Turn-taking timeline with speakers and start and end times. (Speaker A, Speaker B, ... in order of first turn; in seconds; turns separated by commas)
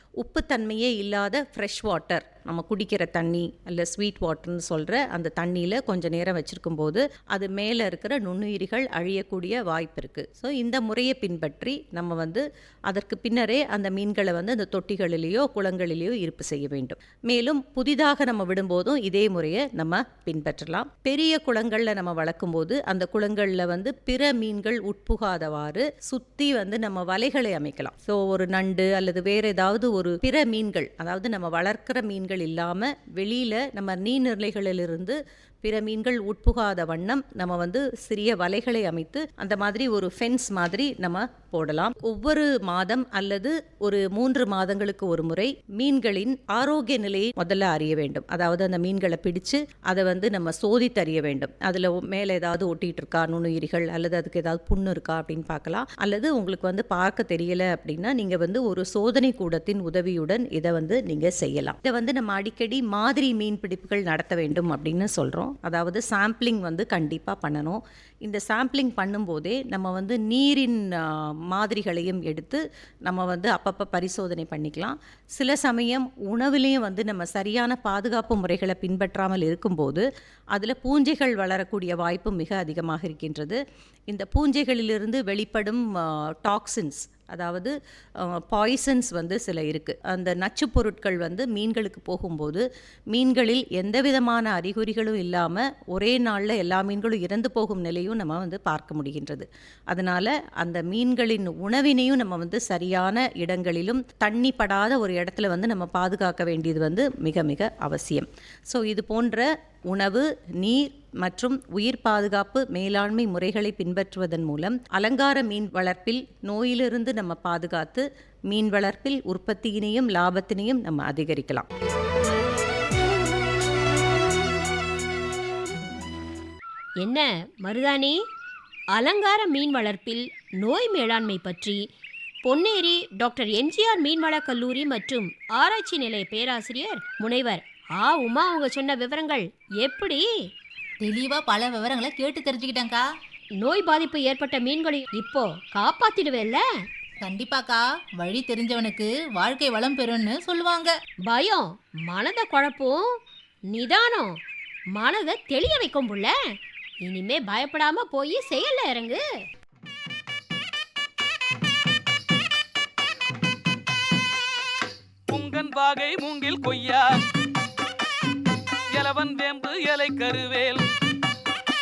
Speaker A: 0.2-121.7, Speaker B: 127.0-128.2, Speaker B: 128.9-131.8, Speaker B: 132.4-140.3, Speaker C: 141.0-143.1, Speaker B: 143.6-146.6, Speaker C: 147.2-150.9, Speaker B: 151.3-153.1, Speaker B: 153.7-154.4, Speaker B: 154.9-156.3, Speaker B: 157.0-159.2, Speaker D: 165.3-167.1, Speaker D: 168.9-170.9